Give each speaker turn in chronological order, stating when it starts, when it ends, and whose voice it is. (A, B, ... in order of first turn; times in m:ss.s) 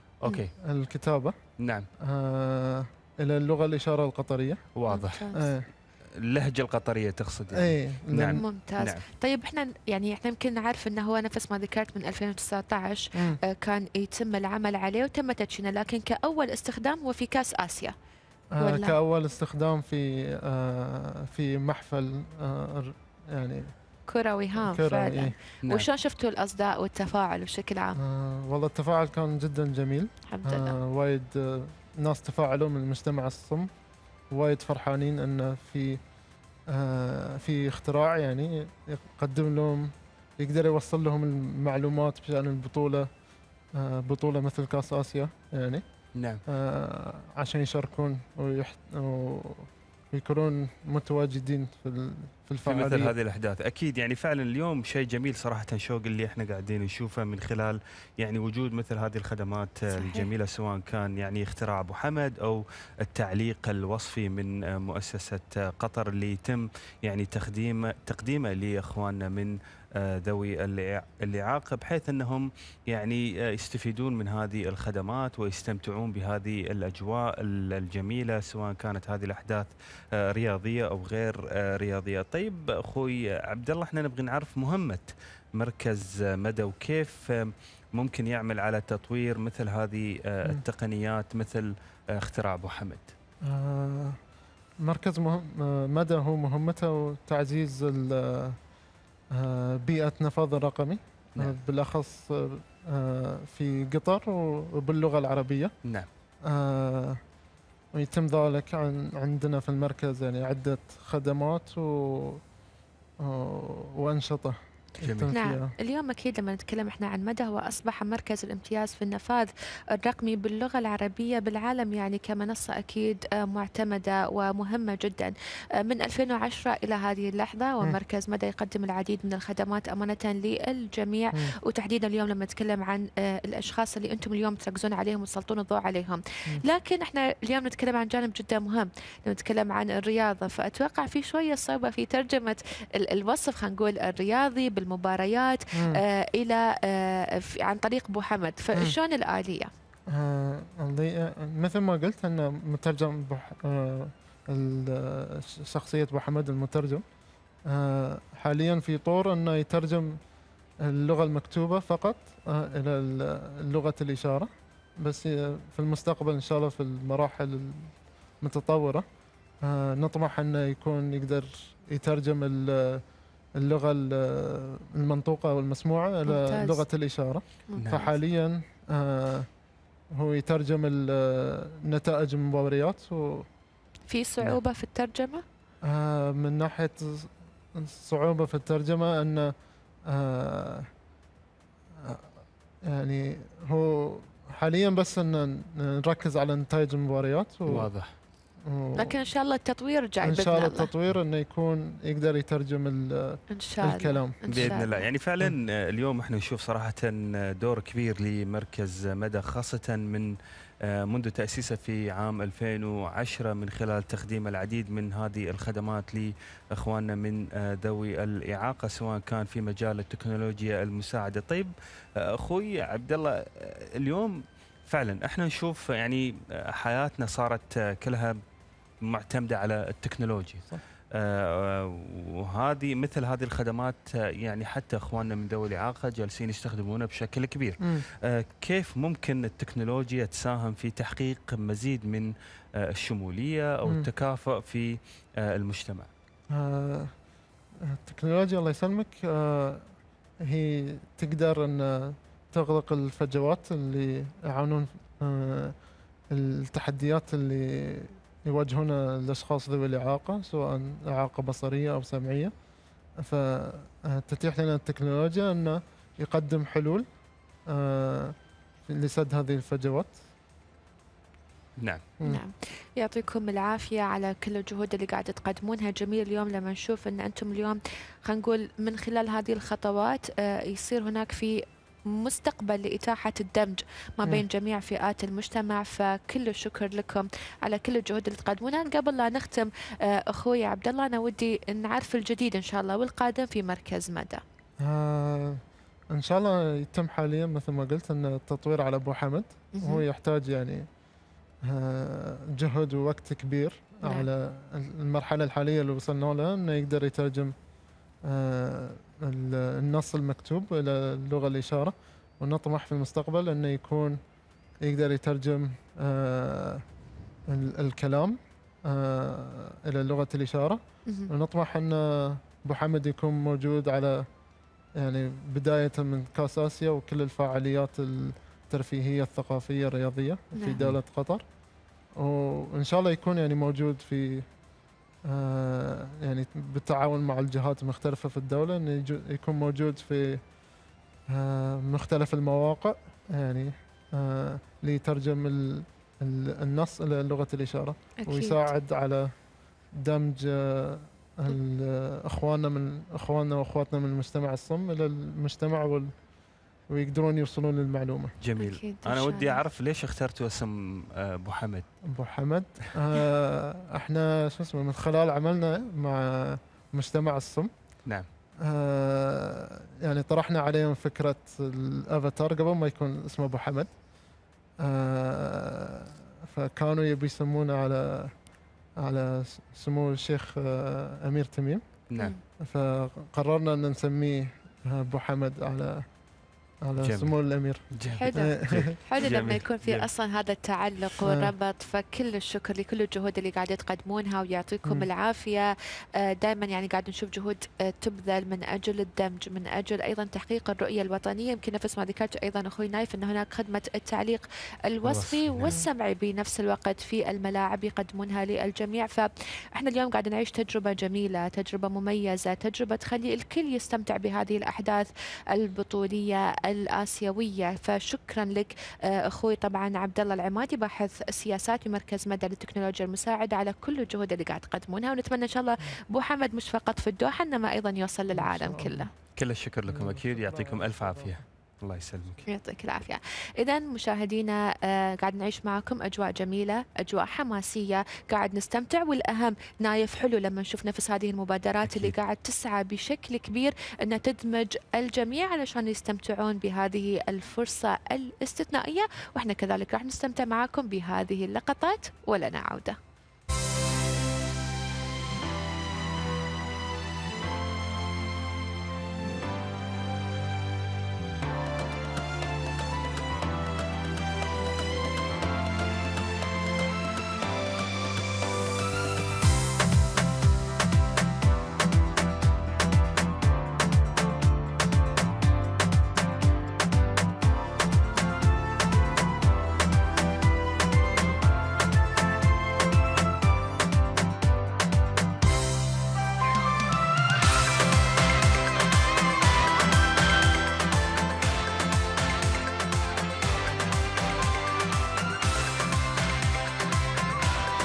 0:00.2-0:00.5 A
0:00.3-0:01.4 B
0:01.6-0:01.9 A
0:02.1-0:04.6 B
0:04.8-0:05.2 A
0:04.9-0:05.5 C
0:05.3-0:05.6 B
0:06.2-0:09.0 A
0:07.5-0:08.4 B
0:08.4-0:17.9 C
0:18.6-0:23.7 B
0:18.6-0:18.9 C
0:24.1-0:28.0 C
0:24.6-0:25.3 B
0:28.0-0:33.7 B
0:30.3-0:30.7 C
0:34.3-0:36.0 B
0:36.7-0:43.1 B
0:43.8-0:45.8 B
0:46.2-0:46.4 A
0:46.5-0:53.1 B
0:52.6-1:19.7 A
0:59.9-1:00.3 C
1:20.2-1:31.7 A
1:32.2-1:33.1 A
1:33.5-1:34.2 B
1:34.8-1:38.6 B
1:39.4-1:45.7 B
1:46.5-1:47.2 B
1:47.9-1:52.4 B
1:53.2-1:55.7 B
1:55.0-1:55.3 A
1:55.3-2:05.3 C
2:05.8-2:29.7 C
2:25.8-2:26.0 B
2:30.1-2:37.0 B
2:37.7-2:40.1 B
2:40.9-2:44.5 B
2:45.0-2:49.0 B
2:49.6-2:53.0 B
2:53.6-2:59.5 B
2:56.3-2:56.8 C
2:57.8-2:58.2 A
3:00.2-3:03.5 B
3:04.1-3:05.4 C
3:05.9-3:09.5 B
3:10.1-3:10.9 B
3:12.9-3:17.9 B
3:17.7-3:18.1 A
3:18.6-3:19.1 B
3:19.0-3:20.9 C
3:20.2-3:24.9 B
3:23.5-3:25.1 C
3:24.5-3:30.3 A
3:31.0-3:41.7 A
3:42.2-3:48.4 A
3:49.0-4:02.3 A
4:02.9-4:06.1 A
4:06.5-4:07.1 B
4:08.0-4:09.9 B
4:10.4-4:15.7 B
4:16.3-4:22.5 B
4:23.2-4:27.0 B
4:27.7-4:28.3 B
4:28.9-4:30.2 B
4:32.2-4:41.6 C
4:42.1-4:54.4 C
4:54.8-4:55.6 B
4:56.1-5:00.9 B
4:59.8-5:00.0 C
5:01.7-5:07.5 B
5:04.0-5:04.3 C
5:08.3-5:14.2 B
5:14.8-5:16.8 B
5:17.5-5:24.2 B
5:25.0-5:31.4 B
5:32.2-5:34.4 B
5:35.3-5:40.4 B
5:41.3-5:49.3 B
5:48.2-5:48.6 C
5:50.0-5:56.1 B
5:56.9-5:58.3 B
5:58.4-6:01.9 A
5:58.6-5:59.6 C
6:02.1-6:07.7 B
6:08.7-6:13.9 B
6:14.8-6:18.3 B
6:19.0-6:21.8 B
6:22.7-6:26.0 B
6:26.8-6:29.4 B
6:27.0-6:27.4 A
6:27.9-6:30.1 A
6:28.2-6:35.7 C
6:31.2-6:31.5 B
6:34.8-6:35.1 B
6:36.2-7:09.1 C
6:45.1-6:45.8 A
7:08.3-7:09.1 B
7:09.4-7:12.4 A
7:09.9-7:11.4 B
7:12.5-7:33.0 C
7:21.8-7:22.1 A